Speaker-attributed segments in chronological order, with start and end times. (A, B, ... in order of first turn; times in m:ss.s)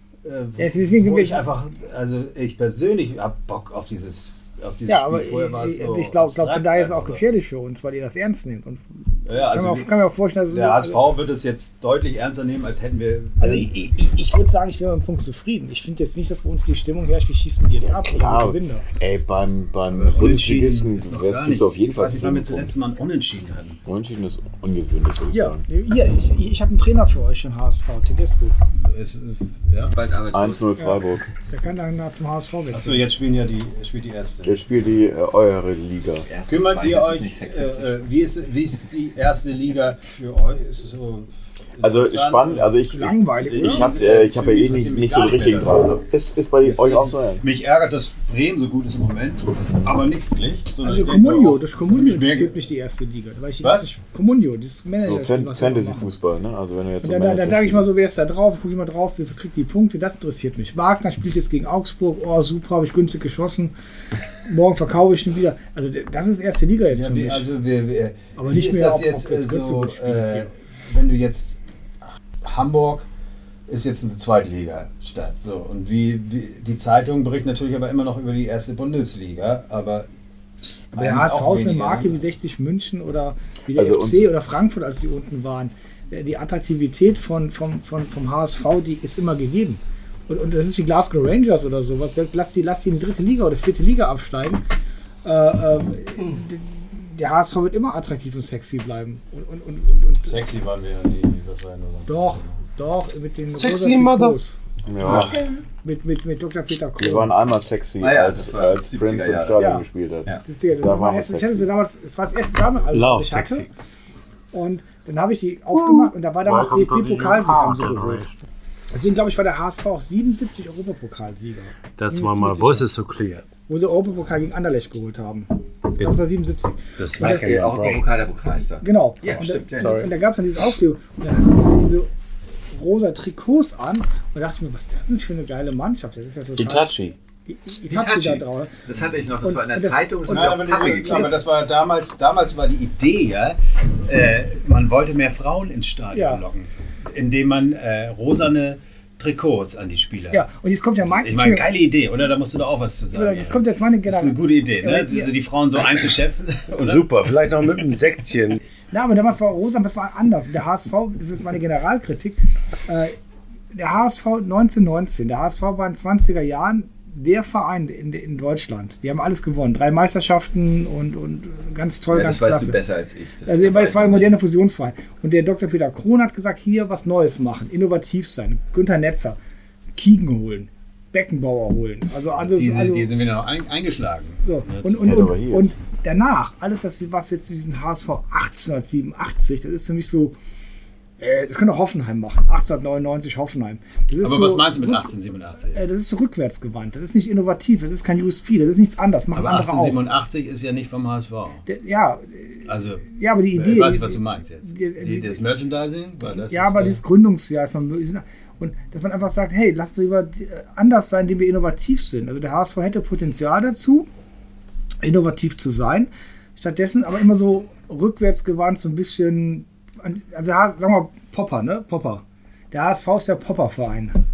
0:00.2-0:07.2 A
0:00.6-0:01.4 B
0:04.9-0:11.0 B
0:09.2-0:10.0 A
0:10.5-0:13.9 A
0:13.4-0:18.9 B
0:18.0-0:22.7 C
0:19.9-0:23.8 A
0:23.8-0:25.6 C
0:25.3-0:28.6 B
0:28.8-0:30.0 A
0:29.9-0:30.7 D
0:30.3-0:31.2 C
0:30.8-0:33.1 B
0:32.7-0:34.6 A
0:34.4-0:36.3 C
0:36.3-0:38.0 D
0:36.5-0:42.8 A
0:41.8-0:47.4 C
0:42.9-0:43.9 B
0:43.4-0:45.9 A
0:46.6-0:52.6 A
0:50.8-0:56.1 B
0:53.6-0:53.9 A
0:55.0-0:57.9 C
0:57.0-1:03.7 B
1:04.4-1:07.5 B
1:06.9-1:11.6 A
1:08.4-1:10.5 B
1:12.4-1:13.1 A
1:13.7-1:20.1 A
1:20.9-1:22.2 A
1:20.9-1:34.6 B
1:23.7-1:24.3 C
1:35.2-1:40.4 B
1:40.2-1:42.6 A
1:42.1-1:47.3 B
1:43.5-1:44.4 E
1:44.8-1:45.4 C
1:47.0-1:51.7 C
1:48.0-1:49.7 D
1:49.6-1:49.8 B
1:50.4-1:53.7 B
1:52.9-1:53.7 E
1:54.5-1:58.2 B
1:55.7-1:58.4 E
1:58.9-2:02.9 B
2:02.0-2:03.5 E
2:03.7-2:07.4 B
2:07.0-2:08.1 E
2:07.2-2:10.0 D
2:08.8-2:12.1 B
2:09.8-2:10.1 E
2:12.7-2:18.8 B
2:16.6-2:17.0 E
2:17.9-2:21.4 D
2:19.4-2:21.4 B
2:20.3-2:30.4 A
2:26.1-2:26.4 B
2:30.3-2:31.7 B
2:31.2-2:37.1 A
2:33.1-2:35.3 B
2:36.7-2:38.6 E
2:38.9-2:43.2 B
2:43.7-2:52.8 B
2:52.1-2:54.4 D
2:53.4-2:59.4 B
3:00.0-3:03.1 B
3:02.3-3:05.3 A
3:04.4-3:10.4 B
3:05.0-3:05.7 C
3:11.2-3:15.1 B
3:14.2-3:15.8 A
3:15.7-3:20.0 B
3:19.3-3:21.6 A
3:21.7-3:25.4 B
3:22.6-3:27.0 A
3:26.2-3:34.1 B
3:35.0-3:44.1 B